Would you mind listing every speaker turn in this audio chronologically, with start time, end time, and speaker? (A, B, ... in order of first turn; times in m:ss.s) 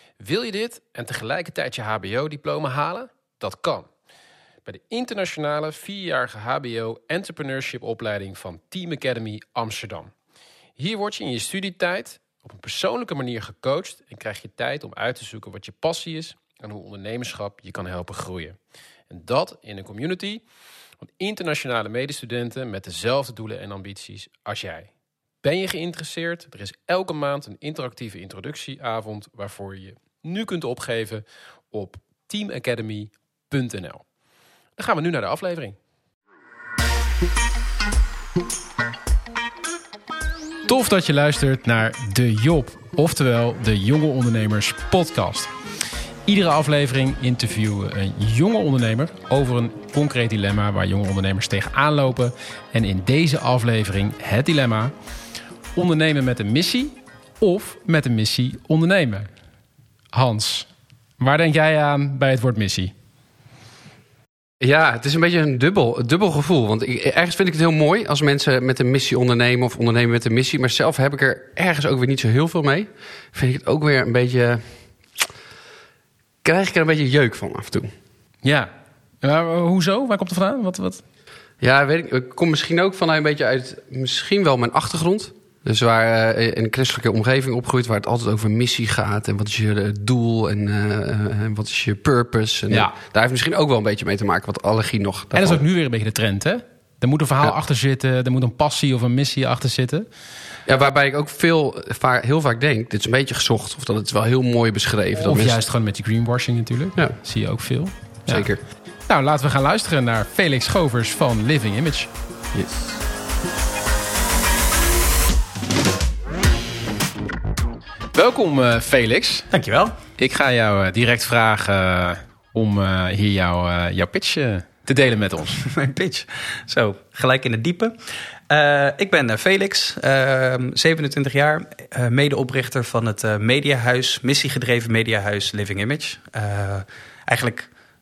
0:00.2-0:03.9 A
0:04.6-0:10.1 A
0:10.8-0:18.6 A
0:19.1-0:20.4 A
0:21.0-0:24.9 A
0:25.4-0:34.0 A
0:34.8-0:35.8 A
0:40.7-0:45.5 A
0:46.2-0:54.9 A
0:55.8-0:59.3 A
1:00.1-1:00.7 A
1:01.2-1:02.9 A
1:04.6-1:14.8 B
1:16.4-1:17.9 B
1:18.4-1:18.7 A
1:19.2-1:21.0 A
1:21.6-1:35.6 B
1:32.7-1:32.9 A
1:35.3-1:40.1 A
1:40.7-1:45.6 B
1:45.2-1:48.5 A
1:48.3-1:48.6 B
1:49.0-1:52.1 A
1:52.5-1:52.9 B
1:58.1-1:59.5 A
1:59.5-2:00.0 C
2:00.2-2:05.6 A
2:05.6-2:07.9 C
2:08.5-2:17.7 C